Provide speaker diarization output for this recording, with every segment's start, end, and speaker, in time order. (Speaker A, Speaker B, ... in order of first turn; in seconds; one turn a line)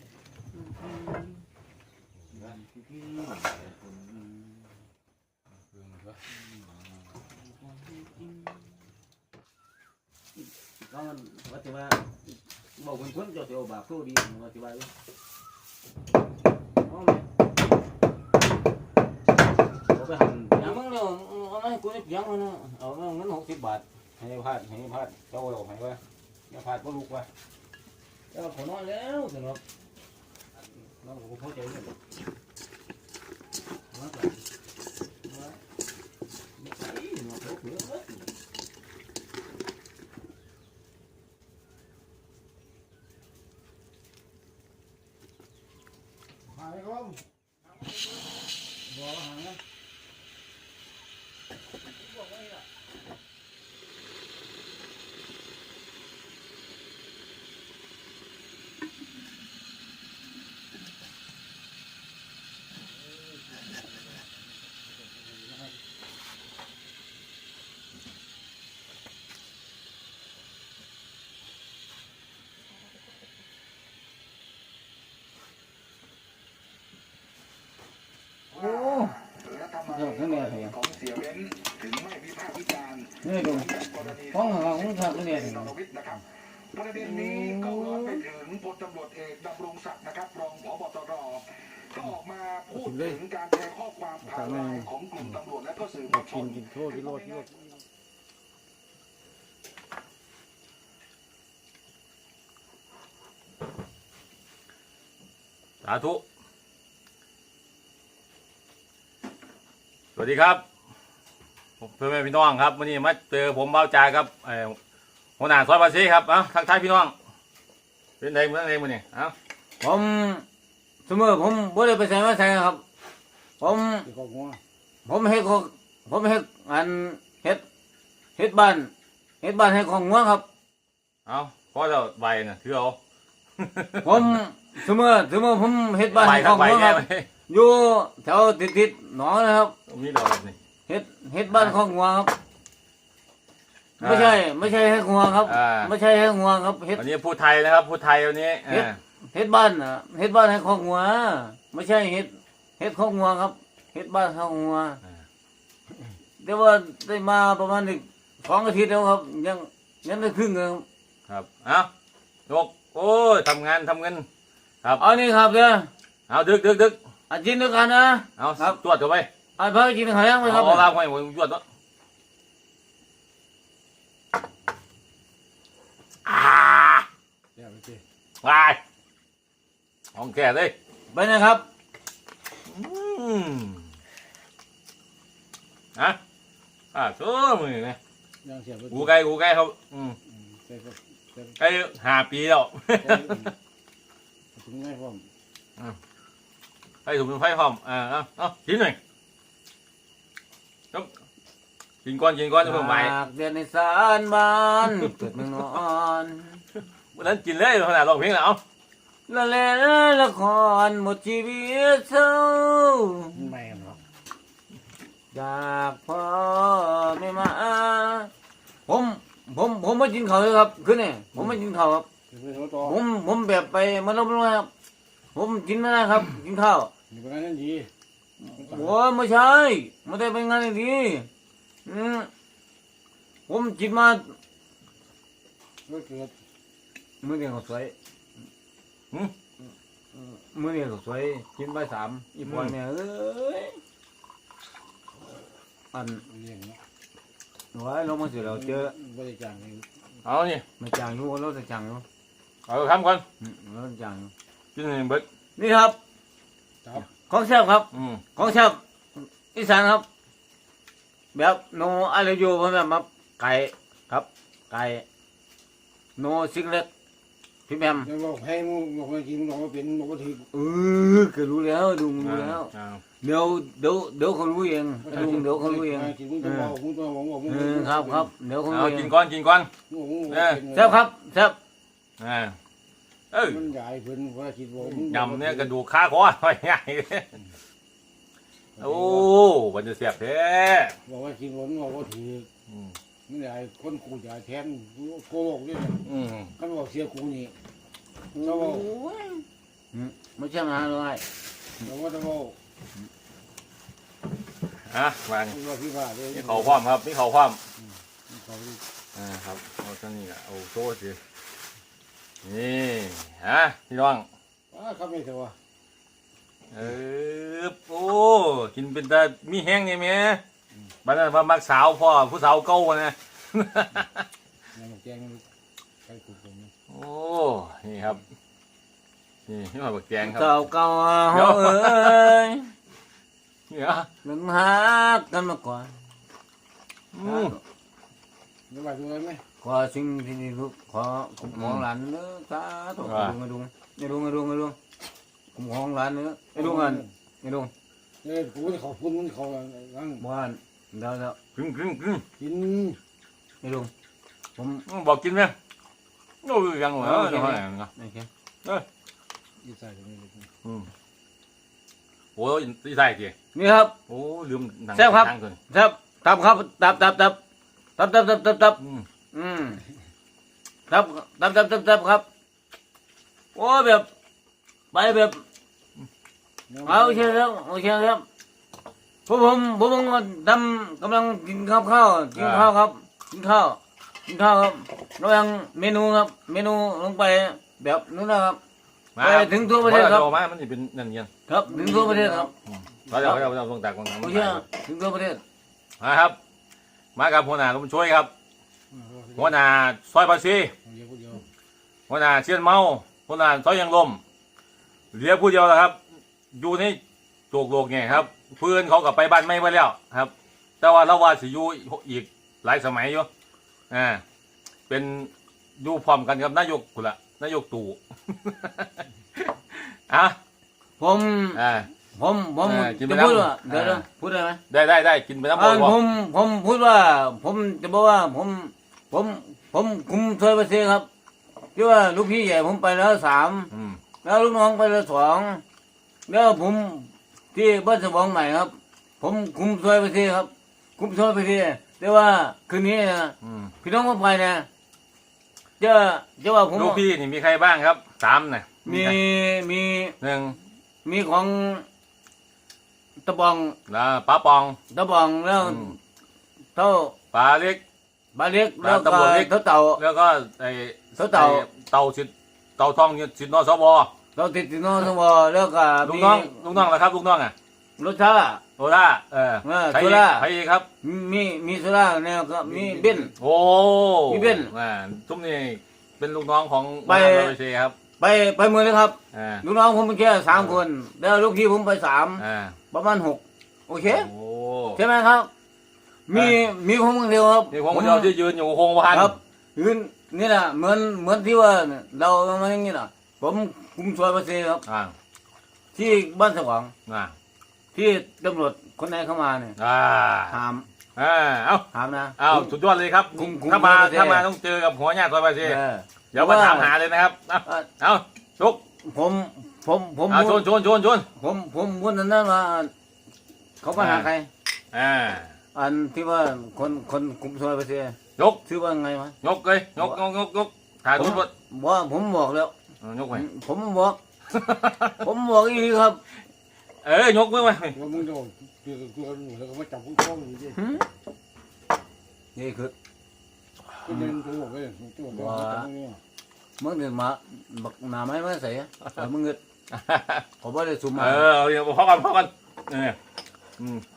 Speaker A: 2.6-3.7
Speaker A: 10.8-12.2
Speaker A: 12.8-14.9
Speaker A: 16.8-17.2
Speaker A: 19.9-27.3
Speaker A: 28.3-29.6
Speaker A: 31.0-31.9
Speaker A: 33.9-34.4
Speaker A: 36.6-38.2
Speaker B: 46.7-47.1
Speaker A: 78.5-79.2
Speaker A: 79.8-80.9
Speaker C: 81.0-83.0
Speaker A: 83.2-85.8
Speaker A: 86.8-88.3
Speaker C: 88.3-91.4
Speaker C: 92.2-92.6
Speaker B: 92.7-93.2
Speaker C: 93.2-94.0
Speaker B: 94.1-95.4
Speaker B: 96.0-97.6
Speaker D: 105.8-106.2
Speaker D: 110.2-110.6
Speaker D: 111.8-114.8
Speaker D: 115.4-117.1
Speaker D: 118.2-119.3
Speaker A: 119.8-120.4
Speaker A: 121.0-122.8
Speaker A: 123.6-124.1
Speaker B: 124.1-124.6
Speaker A: 125.0-127.6
Speaker A: 128.4-130.4
Speaker D: 131.2-133.0
Speaker D: 133.6-134.3
Speaker A: 134.0-139.7
Speaker D: 136.1-137.3
Speaker D: 139.9-140.6
Speaker A: 140.9-142.3
Speaker D: 144.0-144.4
Speaker A: 144.0-147.0
Speaker D: 145.4-145.9
Speaker D: 146.9-149.0
Speaker A: 148.7-155.0
Speaker A: 156.4-160.8
Speaker D: 161.3-161.9
Speaker D: 162.5-164.2
Speaker A: 165.0-165.9
Speaker D: 166.3-167.0
Speaker A: 167.3-168.8
Speaker D: 168.4-169.3
Speaker A: 169.6-170.9
Speaker D: 170.4-171.6
Speaker D: 176.2-177.1
Speaker B: 177.6-178.0
Speaker D: 178.4-178.8
Speaker D: 180.1-180.7
Speaker A: 181.1-181.7
Speaker D: 182.7-183.8
Speaker D: 186.9-188.0
Speaker B: 188.4-188.9
Speaker D: 188.9-190.2
Speaker B: 190.7-191.4
Speaker D: 191.6-193.5
Speaker B: 193.1-193.4
Speaker B: 194.6-195.2
Speaker D: 197.0-199.0
Speaker D: 202.0-203.1
Speaker A: 202.6-206.6
Speaker D: 207.1-208.6
Speaker A: 209.3-213.5
Speaker B: 213.4-214.0
Speaker A: 215.3-218.3
Speaker A: 218.9-222.1
Speaker B: 222.3-222.8
Speaker A: 222.8-224.7
Speaker A: 225.3-226.9
Speaker B: 227.1-227.9
Speaker A: 228.4-231.3
Speaker A: 231.8-232.3
Speaker A: 233.5-234.3
Speaker B: 235.9-236.3
Speaker A: 237.2-237.9
Speaker A: 240.1-243.8
Speaker D: 242.4-242.7
Speaker A: 245.9-246.2
Speaker B: 246.3-246.8
Speaker A: 247.7-248.9
Speaker B: 249.0-249.8
Speaker D: 250.2-250.6
Speaker A: 250.8-252.0
Speaker D: 252.7-253.2
Speaker A: 253.4-254.3
Speaker D: 254.7-255.2
Speaker A: 255.6-256.0
Speaker A: 257.1-260.1
Speaker D: 257.9-258.2
Speaker A: 261.3-265.0
Speaker A: 266.1-266.9
Speaker A: 267.7-268.1
Speaker B: 268.1-270.4
Speaker A: 270.5-272.7
Speaker D: 272.2-273.0
Speaker A: 273.2-276.8
Speaker B: 275.1-278.2
Speaker A: 277.4-279.1
Speaker D: 278.7-279.7
Speaker B: 279.9-280.9
Speaker D: 280.3-280.6
Speaker A: 280.7-281.6
Speaker D: 282.2-282.6
Speaker D: 283.3-283.6
Speaker B: 283.6-285.5
Speaker D: 284.8-287.4
Speaker D: 288.8-290.9
Speaker B: 288.8-289.1
Speaker B: 291.1-292.5
Speaker D: 292.7-292.9
Speaker B: 293.3-296.0
Speaker D: 296.0-296.5
Speaker B: 296.6-297.5
Speaker A: 298.3-301.2
Speaker B: 301.9-302.5
Speaker D: 304.9-305.6
Speaker B: 305.6-306.3
Speaker D: 306.3-307.6
Speaker B: 308.3-308.8
Speaker D: 309.1-311.2
Speaker D: 312.4-314.2
Speaker B: 314.7-315.5
Speaker D: 316.7-320.4
Speaker D: 321.0-324.2
Speaker B: 324.8-325.4
Speaker B: 326.1-326.7
Speaker D: 326.9-328.2
Speaker D: 329.5-330.5
Speaker A: 330.2-332.7
Speaker D: 331.3-332.4
Speaker D: 333.7-334.1
Speaker A: 334.2-335.9
Speaker D: 337.1-337.6
Speaker A: 337.2-337.6
Speaker B: 338.7-339.4
Speaker A: 339.6-344.8
Speaker D: 341.5-341.8
Speaker D: 343.0-343.3
Speaker A: 345.5-347.7
Speaker B: 346.6-346.9
Speaker B: 348.2-350.2
Speaker A: 350.2-351.4
Speaker D: 351.5-352.2
Speaker B: 352.4-353.0
Speaker A: 353.6-353.9
Speaker A: 354.6-354.8
Speaker D: 354.9-355.5
Speaker D: 356.4-357.9
Speaker A: 357.0-358.3
Speaker B: 359.6-360.4
Speaker D: 360.6-360.9
Speaker D: 362.4-363.3
Speaker A: 363.5-363.9
Speaker D: 364.1-365.6
Speaker A: 364.9-367.4
Speaker A: 368.0-368.8
Speaker D: 368.8-369.1
Speaker A: 369.3-369.8
Speaker A: 370.9-372.2
Speaker A: 373.5-374.1
Speaker A: 374.9-375.4
Speaker B: 376.7-377.2
Speaker A: 376.8-378.2
Speaker A: 379.3-388.6
Speaker D: 382.4-382.7
Speaker D: 389.1-391.3
Speaker A: 389.2-390.3
Speaker A: 391.5-392.5
Speaker D: 393.1-394.6
Speaker A: 394.2-395.4
Speaker D: 396.0-396.4
Speaker D: 397.1-398.3
Speaker B: 398.9-399.4
Speaker D: 399.3-400.7
Speaker B: 400.9-401.4
Speaker D: 402.1-404.2
Speaker D: 405.1-406.0
Speaker D: 406.5-407.0
Speaker D: 407.5-413.3
Speaker D: 413.9-414.2
Speaker D: 414.9-420.4
Speaker A: 421.0-421.6
Speaker D: 421.5-421.9
Speaker A: 422.1-424.6
Speaker D: 422.6-424.0
Speaker D: 424.7-426.0
Speaker A: 425.5-431.1
Speaker A: 431.7-433.7
Speaker D: 433.7-434.0
Speaker A: 434.2-435.6
Speaker A: 436.3-444.7
Speaker D: 443.4-443.7
Speaker A: 445.8-447.0
Speaker D: 446.7-449.2
Speaker A: 448.8-450.1
Speaker D: 450.2-450.6
Speaker A: 451.0-451.9
Speaker A: 453.2-453.8
Speaker D: 453.9-454.8
Speaker A: 454.9-456.0
Speaker D: 455.6-455.9
Speaker A: 456.7-457.1
Speaker D: 457.3-457.8
Speaker A: 458.3-460.0
Speaker D: 458.8-464.1
Speaker A: 461.1-461.6
Speaker A: 464.3-466.8
Speaker D: 466.0-467.5
Speaker A: 468.0-468.6
Speaker D: 468.8-470.9
Speaker A: 469.6-470.5
Speaker A: 471.0-473.3
Speaker D: 473.4-477.9
Speaker A: 474.3-474.7
Speaker A: 477.0-477.5
Speaker A: 478.2-484.3
Speaker D: 479.3-479.6
Speaker D: 480.5-480.8
Speaker D: 482.4-482.8
Speaker D: 484.1-485.0
Speaker A: 484.9-485.5
Speaker A: 486.3-488.3
Speaker D: 486.3-486.6
Speaker D: 487.7-489.4
Speaker A: 489.1-494.8
Speaker D: 494.9-495.1
Speaker A: 495.9-496.9
Speaker D: 497.1-497.3
Speaker A: 497.9-499.8
Speaker D: 499.8-500.6
Speaker A: 500.5-500.9
Speaker D: 501.1-501.9
Speaker A: 501.9-502.7
Speaker D: 502.4-505.8
Speaker A: 503.3-504.4
Speaker A: 505.6-506.9
Speaker D: 506.3-508.8
Speaker A: 509.0-510.6
Speaker D: 510.3-511.3
Speaker A: 511.4-512.9
Speaker A: 513.8-514.5
Speaker D: 514.0-514.3
Speaker D: 514.9-515.5
Speaker A: 515.7-519.3
Speaker D: 518.4-518.6
Speaker D: 519.4-521.5
Speaker A: 521.1-522.7
Speaker D: 523.0-523.5
Speaker A: 523.3-524.2
Speaker D: 524.5-525.2
Speaker A: 525.2-526.2
Speaker D: 527.0-528.1
Speaker B: 528.0-530.7
Speaker A: 530.7-531.0
Speaker A: 532.5-532.9
Speaker B: 534.1-536.2
Speaker A: 535.3-535.9
Speaker A: 536.8-539.6
Speaker D: 539.9-540.4
Speaker A: 540.6-541.5
Speaker D: 541.1-543.2
Speaker D: 543.8-544.0